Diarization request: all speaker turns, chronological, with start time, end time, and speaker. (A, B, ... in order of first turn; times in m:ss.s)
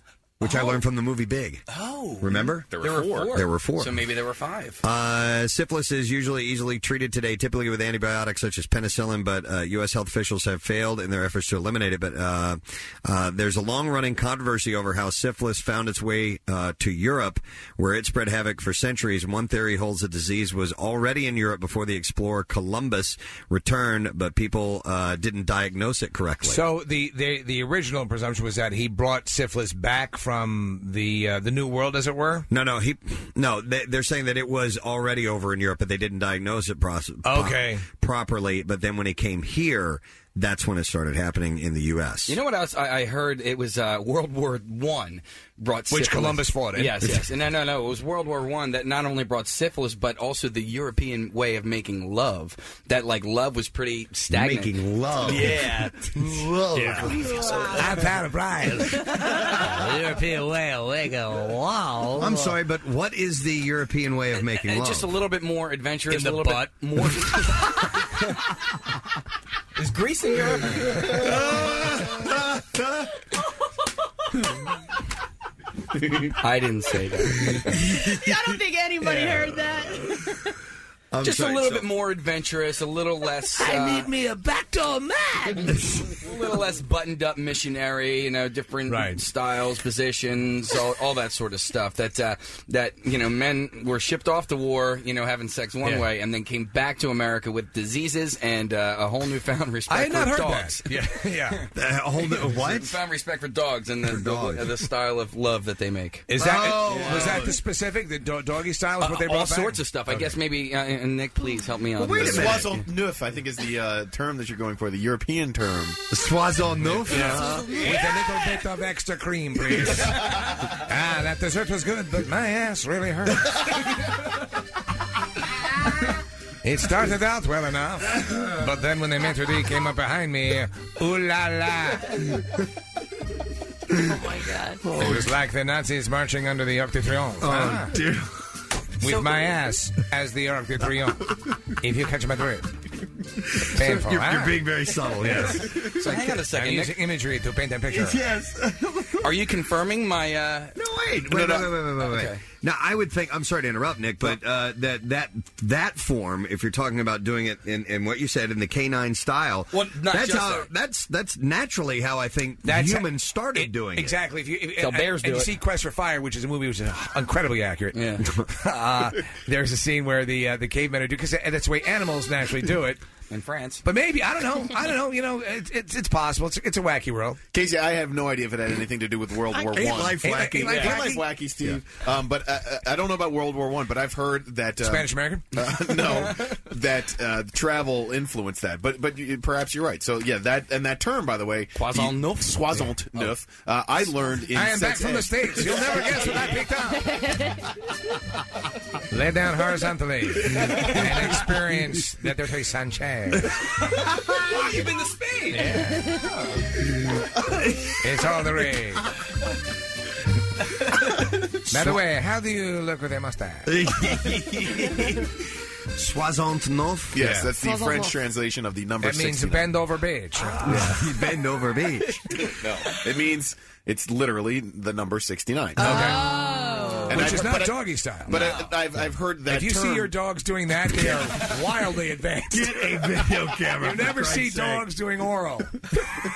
0:00.4-0:01.6 A
0:00.4-0:00.8 B
0:01.7-0:04.8 B
0:02.2-0:04.0 A
0:02.7-0:03.3 C
0:04.8-0:26.6 A
0:26.4-0:32.4 D
0:32.5-0:42.4 A
0:37.2-0:37.8 D
0:42.3-0:56.1 B
0:45.9-0:47.2 D
0:54.3-0:57.8 A
0:56.7-0:57.1 D
0:57.7-1:02.6 D
1:02.2-1:05.1 A
1:04.6-1:07.6 B
1:06.1-1:06.7 D
1:09.8-1:11.5 B
1:16.4-1:17.6 B
1:18.0-1:20.1 E
1:21.1-1:21.9 A
1:21.2-1:24.1 B
1:23.5-1:25.8 D
1:26.2-1:41.7 B
1:28.9-1:29.2 D
1:35.8-1:36.1 D
1:39.9-1:41.6 D
1:41.7-1:43.0 A
1:42.2-1:46.3 B
1:44.0-1:44.7 A
1:46.3-1:50.3 D
1:46.4-1:47.6 A
1:49.0-1:52.8 B
1:52.0-1:52.8 A
1:52.1-1:56.0 C
1:56.1-1:58.0 A
1:56.9-2:03.6 D
2:06.6-2:12.2 D
2:14.0-2:14.8 E
2:14.9-2:18.0 D
2:17.4-2:18.2 A
2:19.0-2:22.7 D
2:23.7-2:28.2 D
2:23.8-2:26.1 A
2:26.0-2:27.0 B
2:27.9-2:29.1 A
2:29.2-2:30.8 B
2:30.8-2:44.1 A
2:32.0-2:32.4 B
2:39.7-2:40.7 B
2:42.6-2:53.0 D
2:44.8-2:45.5 B
2:47.9-2:48.2 B
2:53.3-2:53.8 B
2:53.8-2:57.4 D
2:57.5-3:16.0 C
2:59.6-3:01.8 A
3:00.0-3:01.2 D
3:04.8-3:05.4 D
3:11.7-3:13.2 B
3:14.5-3:17.3 D
3:19.1-3:23.5 D
3:24.4-3:25.8 B
3:25.5-3:26.2 D
3:28.0-3:29.0 D
3:31.7-3:33.8 D
3:33.6-3:35.3 A
3:36.0-3:37.4 A
3:37.1-3:39.8 C
3:37.6-3:38.1 E
3:39.0-3:41.0 D
3:40.6-3:42.2 A
3:42.5-3:46.0 C
3:45.8-3:47.3 E
3:45.8-3:46.2 D
3:47.1-3:47.8 C
3:47.1-3:48.6 D
3:48.3-3:50.1 C
3:48.3-3:48.6 B
3:49.5-3:55.8 D
3:52.5-3:54.8 A